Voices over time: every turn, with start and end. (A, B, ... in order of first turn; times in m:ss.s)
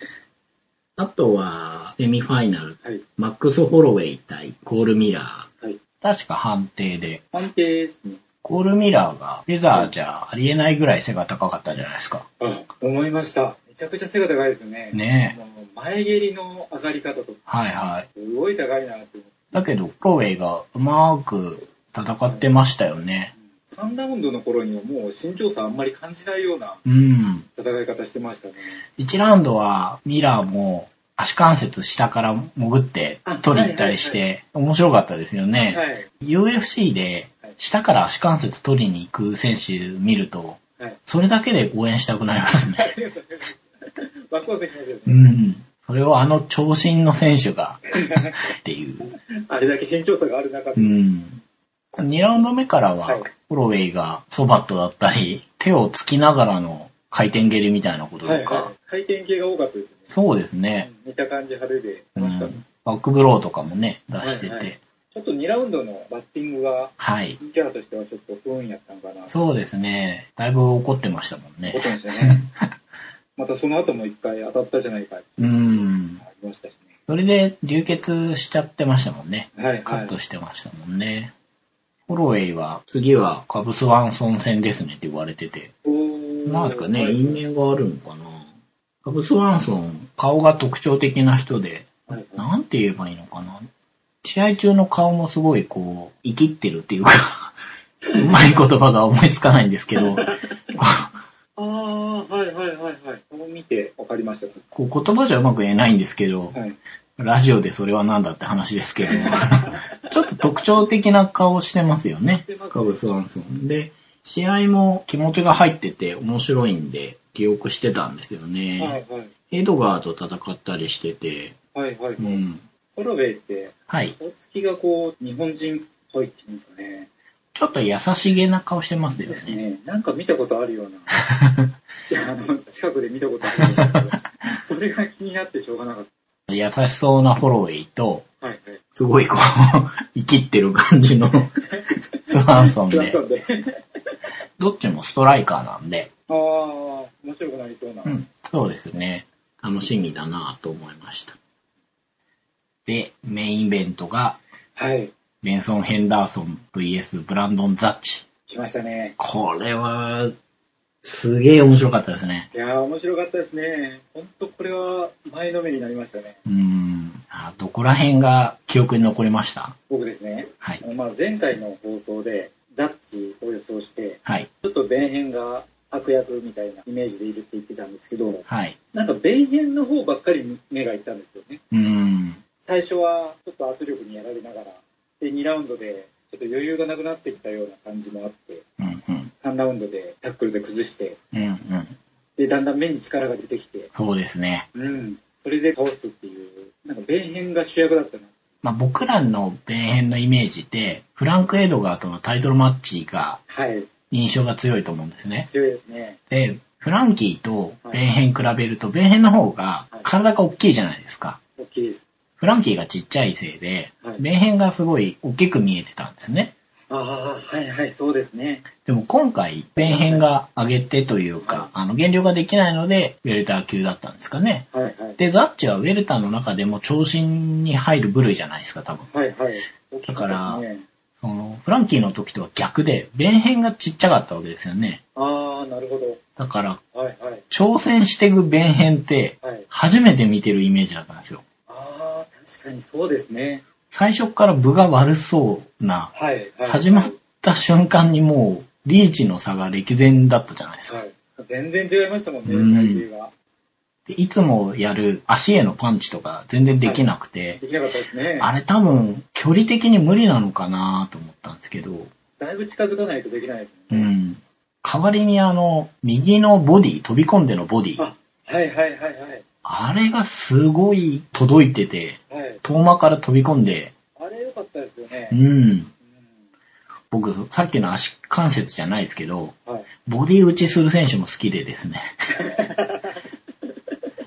0:01.0-0:05.5 A
0:06.0-0:07.2 A
0:07.3-0:08.2 B
0:08.4-0:12.2 A
0:12.4-0:17.4 B
0:14.9-0:15.4 A
0:17.5-0:18.1 A
0:18.1-0:19.4 B
0:19.5-0:23.3 A
0:23.7-0:26.8 B
0:26.8-0:27.5 A
0:27.6-0:28.8 B
0:29.0-0:42.9 A
0:33.2-0:34.2 B
0:35.7-0:36.1 B
0:42.8-0:45.2 B
0:45.1-0:49.1 A
0:48.0-0:48.4 B
0:49.5-0:50.9 B
0:50.8-0:51.4 A
0:52.0-0:58.7 A
0:58.2-1:00.1 B
1:00.1-1:00.9 A
1:00.8-1:02.7 B
1:02.2-1:04.8 A
1:04.2-1:09.3 B
1:07.0-1:07.4 A
1:09.3-1:12.5 A
1:11.7-1:12.4 B
1:13.4-1:16.9 B
1:15.4-1:16.2 A
1:17.1-1:21.3 A
1:19.6-1:20.1 B
1:22.1-1:25.7 A
1:25.8-1:27.4 B
1:26.4-1:28.5 A
1:29.0-1:33.6 A
1:32.1-1:32.5 B
1:34.2-1:37.6 A
1:38.0-1:38.6 B
1:38.1-1:41.2 A
1:39.9-1:40.6 B
1:41.6-1:44.6 B
1:44.7-1:46.5 A
1:46.5-1:46.8 B
1:47.2-1:59.0 A
1:49.0-1:50.3 B
1:52.4-1:53.0 B
1:58.8-1:59.3 B
1:59.5-2:01.6 A
2:01.8-2:02.4 B
2:02.2-2:02.6 A
2:03.0-2:07.1 B
2:03.9-2:04.1 A
2:07.5-2:09.6 A
2:09.1-2:11.2 B
2:11.3-2:11.7 A
2:12.1-2:16.1 B
2:13.5-2:14.1 A
2:16.5-2:18.2 A
2:18.4-2:18.8 B
2:18.9-2:21.5 A
2:21.7-2:23.8 B
2:22.3-2:23.2 A
2:24.6-2:26.1 A
2:26.3-2:28.2 B
2:28.0-2:31.4 A
2:32.8-2:34.4 A
2:34.8-2:35.1 B
2:35.4-2:38.3 A
2:38.5-2:39.2 B
2:39.2-2:40.3 A
2:41.0-2:42.5 A
2:42.5-2:46.4 B
2:46.4-2:49.8 A
2:49.9-3:01.6 B
2:58.5-2:58.8 A
3:01.7-3:02.4 A
3:02.6-3:08.6 B
3:08.8-3:09.3 A
3:09.4-3:11.2 B
3:11.3-3:12.0 A
3:12.4-3:13.9 B
3:13.9-3:14.7 A
3:14.8-3:18.3 B
3:18.6-3:23.4 A
3:23.5-3:23.9 B
3:24.1-3:25.5 A
3:25.4-3:26.2 B
3:26.3-3:31.4 A
3:31.6-3:32.0 B
3:32.4-3:36.5 A
3:36.9-3:38.7 B
3:38.8-3:44.7 A
3:39.8-3:40.2 B
3:41.4-3:41.7 B
3:44.7-3:45.2 B
3:45.2-3:49.1 A
3:49.1-3:50.8 B
3:50.1-3:50.6 A
3:51.2-3:55.0 A
3:55.2-3:56.2 B
3:56.4-3:56.8 A
3:56.9-3:57.4 B
3:57.5-4:01.4 A
3:59.4-3:59.7 B
4:01.7-4:03.6 B
4:03.9-4:06.1 A
4:06.1-4:07.2 B
4:06.7-4:11.0 A
4:10.9-4:13.3 B
4:12.4-4:13.0 A
4:14.1-4:17.6 A
4:17.6-4:18.5 B
4:18.4-4:22.1 A
4:22.4-4:24.1 B
4:23.9-4:28.0 A
4:28.0-4:29.4 B
4:29.6-4:33.9 A
4:32.3-4:32.6 B
4:34.2-4:35.4 B
4:35.3-4:35.9 A
4:37.1-4:42.1 A
4:42.4-4:43.2 B